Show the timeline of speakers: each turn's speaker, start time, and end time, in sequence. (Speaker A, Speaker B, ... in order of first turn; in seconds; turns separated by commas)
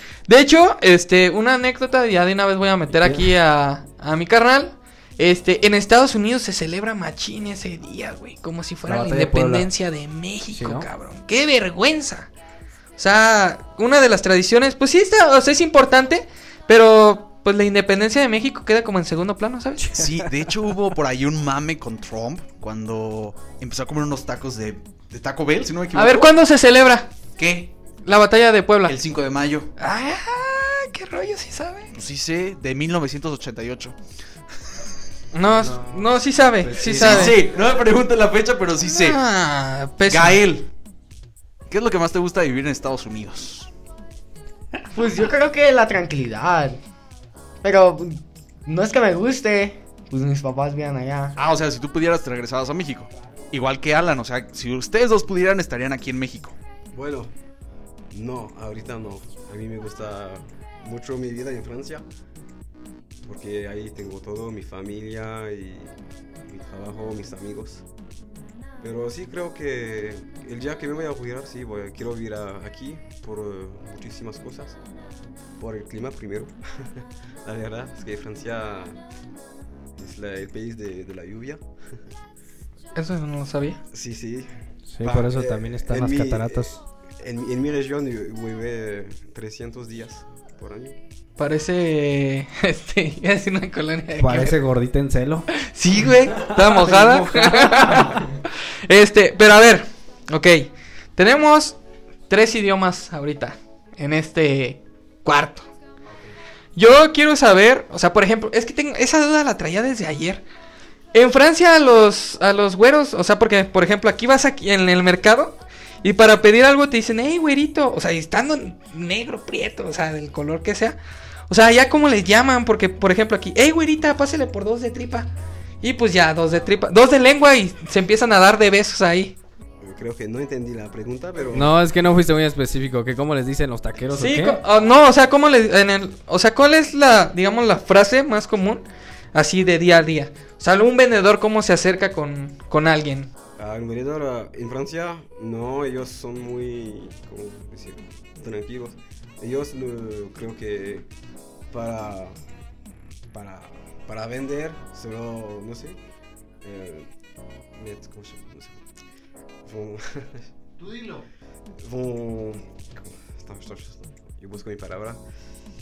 Speaker A: 0.3-12.3, Speaker B: 2.9-3.3, Speaker B: 8.9-9.7, Speaker B: 10.5-10.9, Speaker A: 13.0-20.0, Speaker B: 19.9-20.2, Speaker C: 19.9-26.3, Speaker A: 25.9-27.1, Speaker C: 27.4-27.7, Speaker A: 28.1-28.9, Speaker C: 28.9-29.7, Speaker A: 29.8-31.9, Speaker C: 31.9-33.9, Speaker A: 35.3-37.4, Speaker B: 35.5-37.4, Speaker C: 36.8-39.2, Speaker A: 38.8-40.4, Speaker C: 40.1-40.7, Speaker C: 41.7-43.7, Speaker D: 44.9-46.8, Speaker D: 47.6-51.4, Speaker C: 51.4-56.5, Speaker E: 56.9-57.3, Speaker E: 58.1-62.0, Speaker E: 63.2-67.8, Speaker E: 68.8-74.8, Speaker E: 75.6-79.0, Speaker E: 80.0-81.6, Speaker A: 82.9-83.8, Speaker E: 83.9-84.5, Speaker B: 84.9-86.8, Speaker E: 85.0-91.0, Speaker A: 91.4-94.5, Speaker B: 94.2-95.5, Speaker A: 95.5-101.8, Speaker B: 96.5-98.2, Speaker A: 102.3-105.7, Speaker A: 106.8-110.4, Speaker A: 111.1-121.0, Speaker A: 121.5-125.3, Speaker A: 125.8-129.3, Speaker E: 129.8-131.7, Speaker B: 131.5-134.6, Speaker A: 134.2-143.3, Speaker E: 143.6-151.1, Speaker E: 151.7-152.4, Speaker E: 153.3-156.0, Speaker E: 156.6-157.1, Speaker E: 157.7-158.8, Speaker E: 159.6-161.2, Speaker E: 161.8-165.2